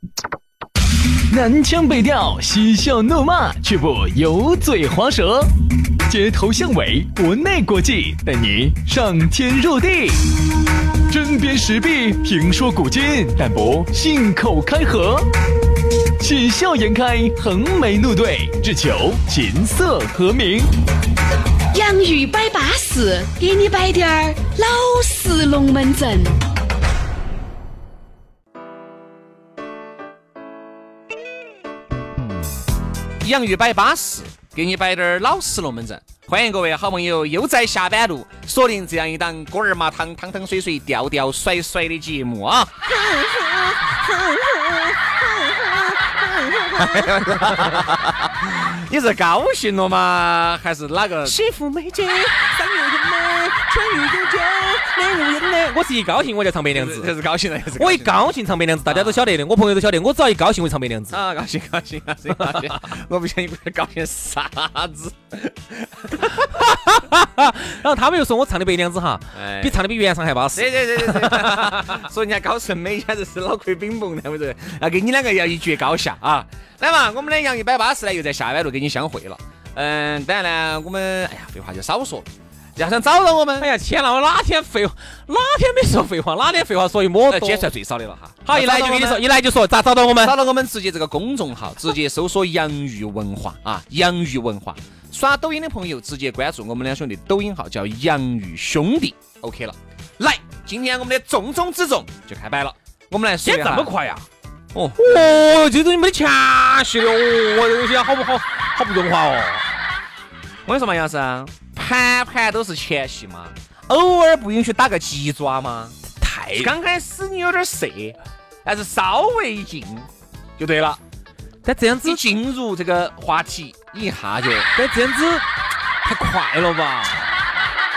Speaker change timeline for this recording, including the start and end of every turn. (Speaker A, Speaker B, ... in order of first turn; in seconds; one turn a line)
Speaker A: 1.3-5.5
Speaker A: 6.0-10.3
Speaker A: 11.1-15.3
Speaker A: 16.2-20.7
Speaker B: 21.7-26.4
Speaker C: 33.2-51.4
Speaker D: 51.2-53.5
Speaker C: 53.2-54.6
Speaker D: 54.6-57.1
Speaker C: 56.7-58.2
Speaker D: 57.8-61.2
Speaker C: 58.9-59.2
Speaker C: 61.1-66.4
Speaker D: 66.2-71.8
Speaker C: 69.3-69.8
Speaker C: 70.5-83.7
Speaker D: 83.6-87.7
Speaker C: 87.3-89.2
Speaker D: 88.5-90.3
Speaker C: 90.2-103.9
Speaker D: 103.4-104.3
Speaker C: 104.7-105.4
Speaker D: 105.0-109.6
Speaker C: 110.7-116.0
Speaker D: 116.2-116.7
Speaker C: 116.6-121.0
Speaker D: 121.7-122.2
Speaker C: 122.0-124.7
Speaker D: 124.8-125.5
Speaker D: 126.0-127.2